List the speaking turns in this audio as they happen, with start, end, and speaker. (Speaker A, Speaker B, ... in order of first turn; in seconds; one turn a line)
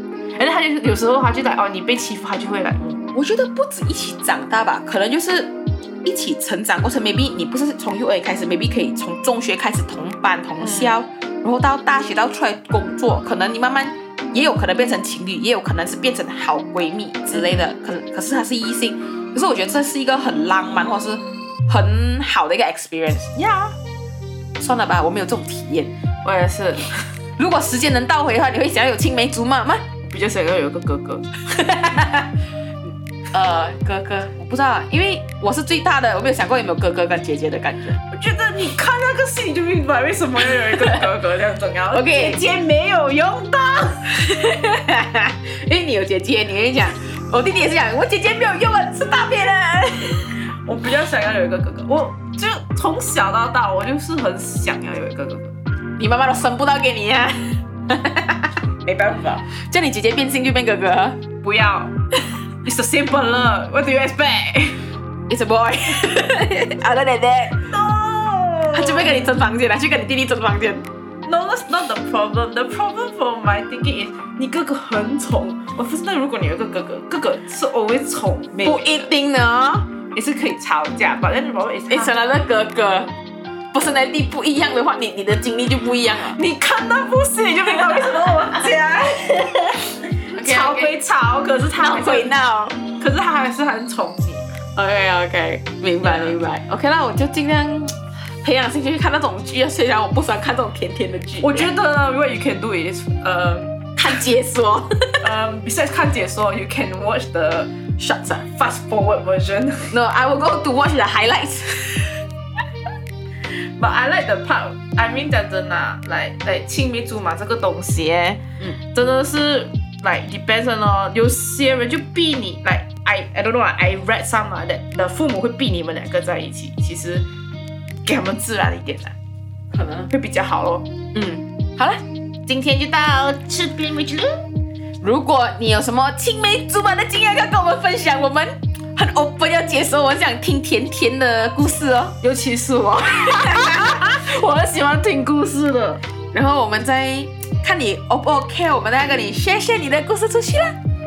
Speaker A: 0.4-3.0
Speaker B: 3.1-23.5
Speaker A: 10.6-11.0
Speaker A: 17.3-17.7
Speaker B: 24.6-25.9
Speaker A: 26.2-27.1
Speaker B: 27.4-29.9
Speaker A: 30.0-31.3
Speaker B: 31.5-32.3
Speaker B: 33.3-38.0
Speaker A: 38.1-44.2
Speaker B: 41.9-42.4
Speaker B: 44.2-50.3
Speaker A: 50.2-55.5
Speaker B: 56.0-61.2
Speaker A: 61.4-61.9
Speaker A: 62.6-64.9
Speaker B: 65.3-67.7
Speaker A: 67.7-69.2
Speaker B: 68.7-70.9
Speaker A: 71.2-79.1
Speaker B: 78.6-79.9
Speaker A: 80.1-82.1
Speaker B: 81.9-83.1
Speaker B: 83.7-86.4
Speaker A: 86.2-89.8
Speaker B: 90.3-90.9
Speaker A: 90.3-92.4
Speaker B: 91.8-92.8
Speaker A: 92.9-94.6
Speaker B: 94.8-101.7
Speaker A: 96.0-96.4
Speaker A: 101.4-103.8
Speaker B: 104.0-105.3
Speaker A: 105.2-107.7
Speaker B: 108.0-108.5
Speaker A: 108.5-110.0
Speaker B: 109.9-112.2
Speaker A: 113.8-127.3
Speaker A: 128.1-129.1
Speaker B: 129.7-130.1
Speaker A: 130.1-130.9
Speaker B: 131.1-132.0
Speaker A: 132.5-134.4
Speaker B: 135.0-142.2
Speaker A: 142.2-146.0
Speaker B: 143.4-144.0
Speaker B: 146.3-150.8